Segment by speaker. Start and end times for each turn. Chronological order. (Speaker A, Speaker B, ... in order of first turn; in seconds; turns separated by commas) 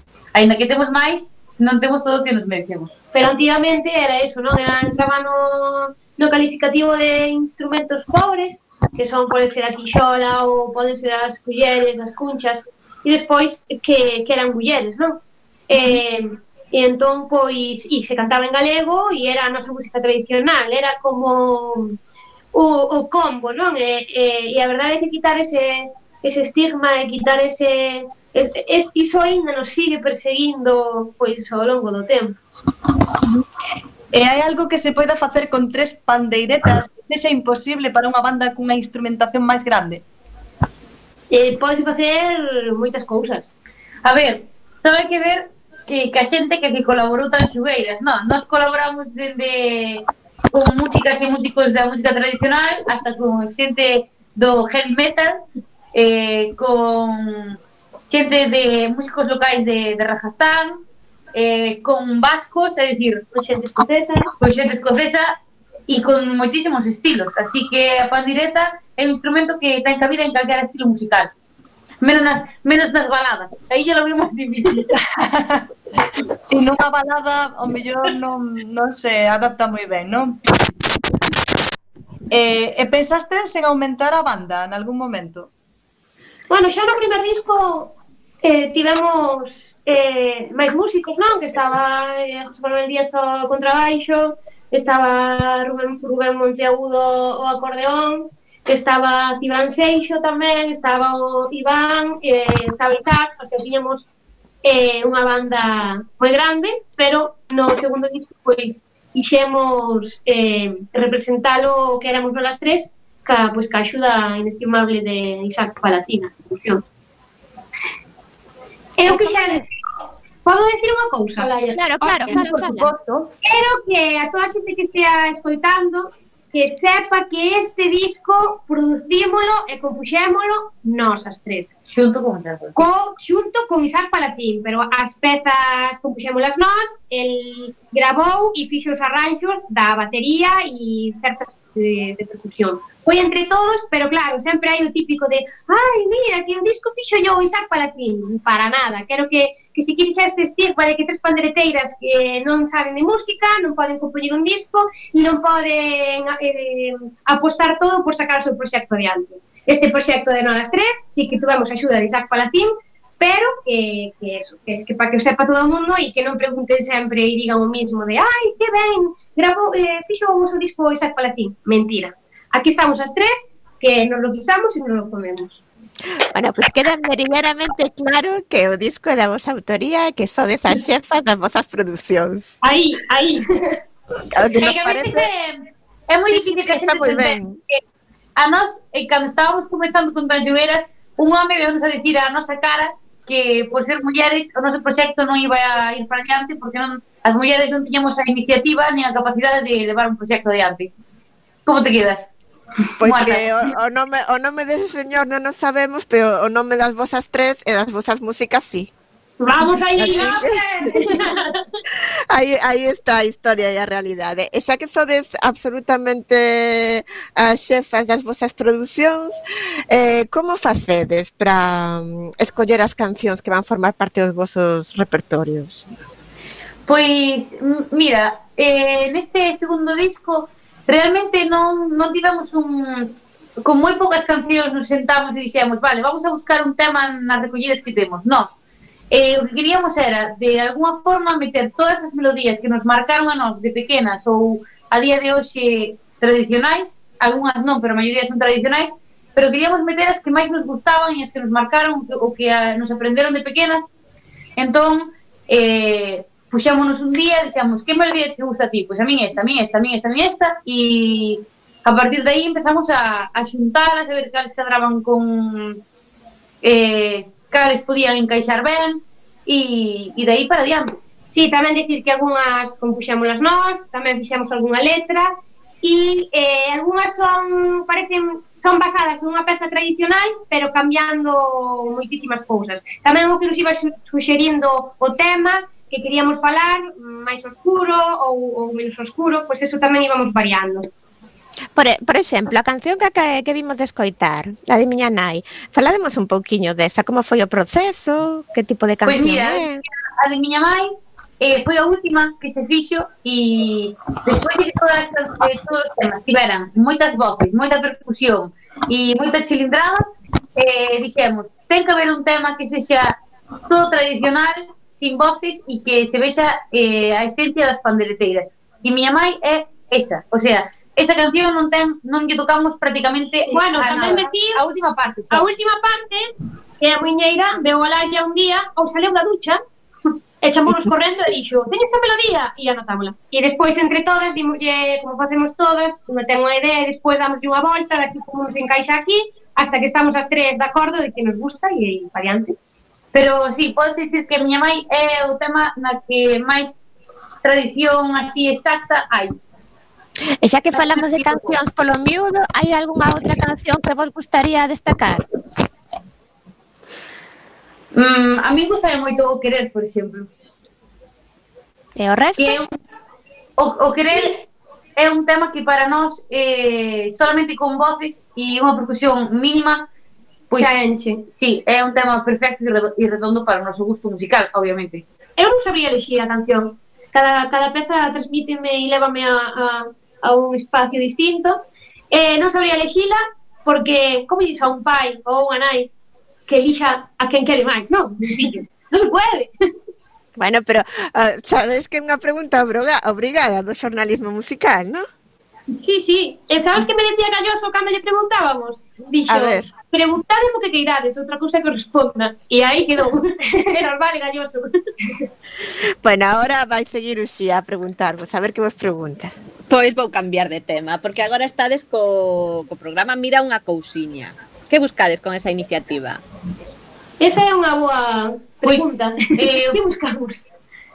Speaker A: 0.3-2.9, Speaker B: 3.1-22.0, Speaker B: 22.5-32.4, Speaker C: 34.1-40.0, Speaker B: 41.3-43.5, Speaker A: 44.0-55.4, Speaker A: 55.9-60.8, Speaker A: 61.3-63.3, Speaker B: 63.3-64.3, Speaker A: 64.4-71.3, Speaker A: 72.0-74.9, Speaker C: 75.0-75.7, Speaker C: 76.4-80.4, Speaker C: 82.3-85.5, Speaker B: 86.5-104.1, Speaker B: 104.6-116.8, Speaker B: 119.0-119.7, Speaker D: 119.1-119.6, Speaker B: 120.5-121.5, Speaker A: 121.4-122.5, Speaker D: 121.7-122.9, Speaker C: 122.4-123.1, Speaker B: 123.4-131.8, Speaker A: 131.9-132.8, Speaker B: 132.8-175.6, Speaker D: 176.3-182.6, Speaker B: 182.6-183.8, Speaker D: 184.3-185.3, Speaker A: 184.5-187.4, Speaker D: 186.3-187.6, Speaker A: 188.4-200.9, Speaker A: 201.7-202.3, Speaker D: 203.0-208.9, Speaker A: 203.0-203.6, Speaker B: 209.4-211.6, Speaker D: 210.0-211.2, Speaker D: 212.3-225.9, Speaker A: 226.9-238.5, Speaker A: 239.1-253.9, Speaker A: 254.6-265.8, Speaker A: 266.6-271.0, Speaker B: 271.3-290.9, Speaker D: 291.7-299.8, Speaker A: 299.1-325.5, Speaker B: 323.5-324.6, Speaker B: 325.3-329.6, Speaker B: 330.4-342.6, Speaker A: 343.1-346.8, Speaker A: 347.4-349.4, Speaker D: 350.4-355.3, Speaker A: 350.8-351.5, Speaker A: 357.9-360.3, Speaker D: 362.0-362.6, Speaker A: 362.4-362.7, Speaker A: 363.6-364.4, Speaker A: 365.0-369.9, Speaker A: 370.5-375.1, Speaker B: 370.6-371.2, Speaker B: 375.4-385.9, Speaker B: 386.5-389.5, Speaker D: 390.4-395.1, Speaker B: 395.8-405.3, Speaker D: 399.3-399.7, Speaker D: 406.0-409.3, Speaker E: 409.7-416.2, Speaker B: 417.2-420.5, Speaker A: 418.6-419.8